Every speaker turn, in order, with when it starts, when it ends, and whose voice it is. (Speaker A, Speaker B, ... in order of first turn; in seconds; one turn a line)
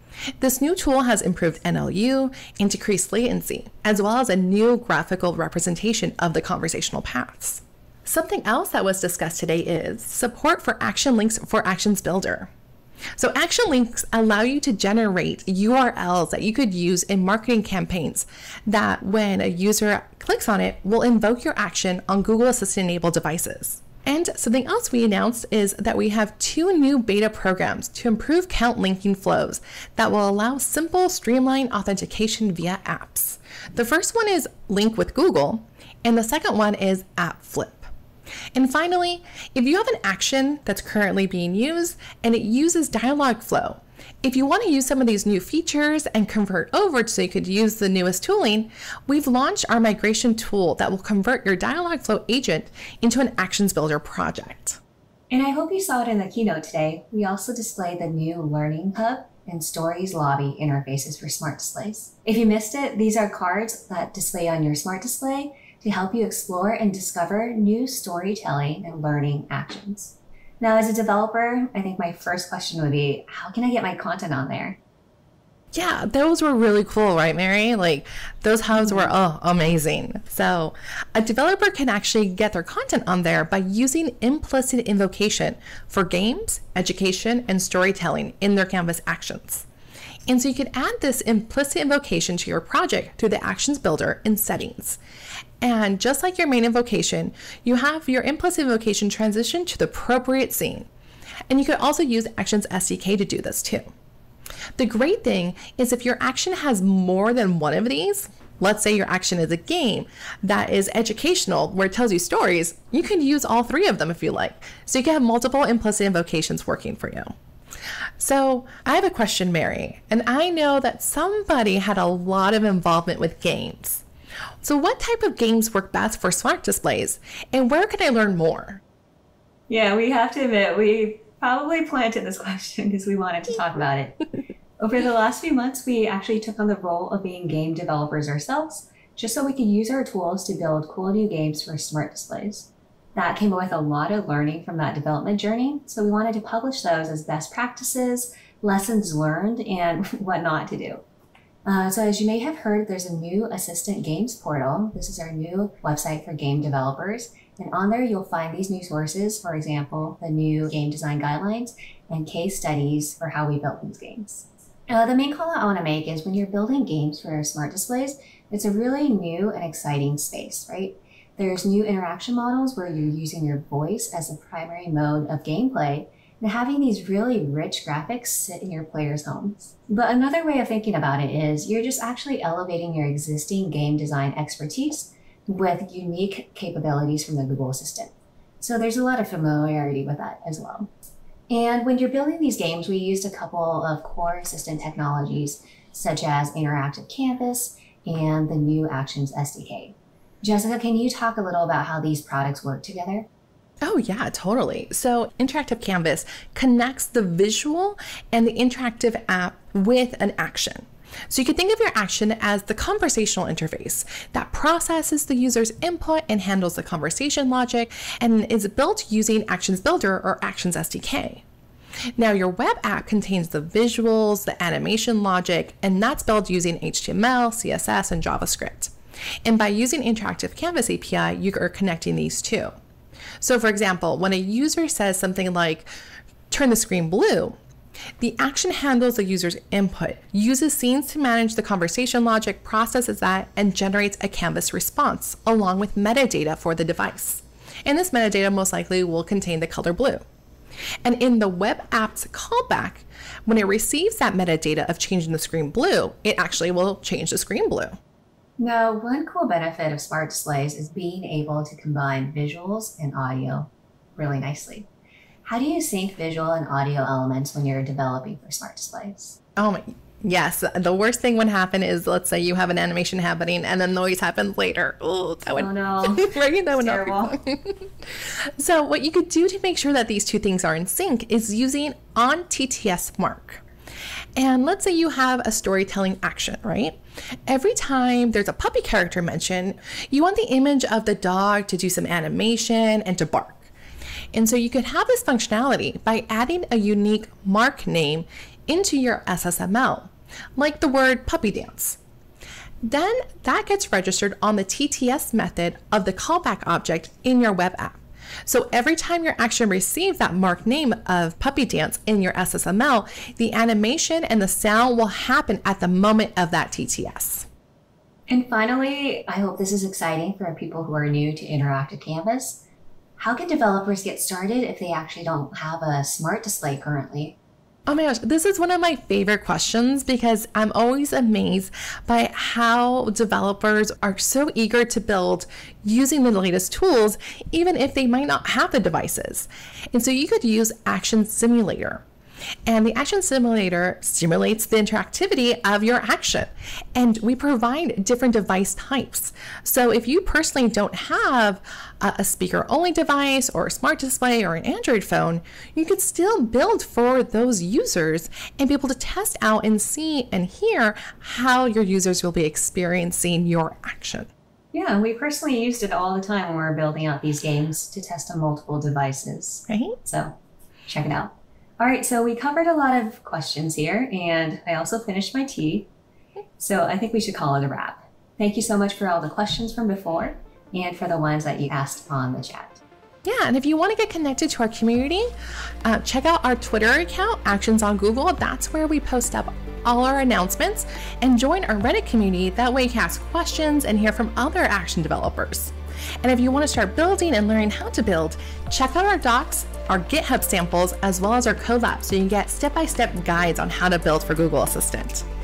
Speaker A: 0.4-12.5
Speaker A: 13.2-37.9
Speaker A: 38.5-54.8
Speaker B: 55.3-74.8
Speaker A: 75.7-89.7
Speaker B: 78.7-79.1
Speaker A: 90.3-95.0
Speaker A: 95.6-100.9
Speaker A: 101.5-103.8
Speaker A: 104.8-117.3
Speaker A: 118.2-124.0
Speaker A: 124.6-128.8
Speaker B: 129.7-134.2
Speaker B: 134.8-151.0
Speaker B: 151.7-190.9
Speaker B: 191.5-203.3
Speaker A: 203.8-221.4
Speaker A: 222.2-228.9
Speaker A: 229.4-232.7
Speaker A: 233.4-235.9
Speaker A: 236.5-237.6
Speaker A: 238.2-250.2
Speaker A: 251.0-257.9
Speaker B: 258.6-264.9
Speaker B: 265.4-269.4
Speaker A: 269.6-283.6
Speaker B: 275.6-277.4
Speaker A: 284.4-293.7
Speaker A: 294.3-302.0
Speaker A: 302.8-317.4
Speaker B: 318.3-322.6
Speaker B: 323.2-327.4
Speaker A: 327.9-342.0
Speaker A: 342.6-364.3
Speaker B: 364.7-370.4
Speaker A: 369.7-369.9
Speaker B: 370.9-375.9
Speaker B: 376.6-382.8
Speaker A: 383.2-385.3
Speaker A: 385.8-405.2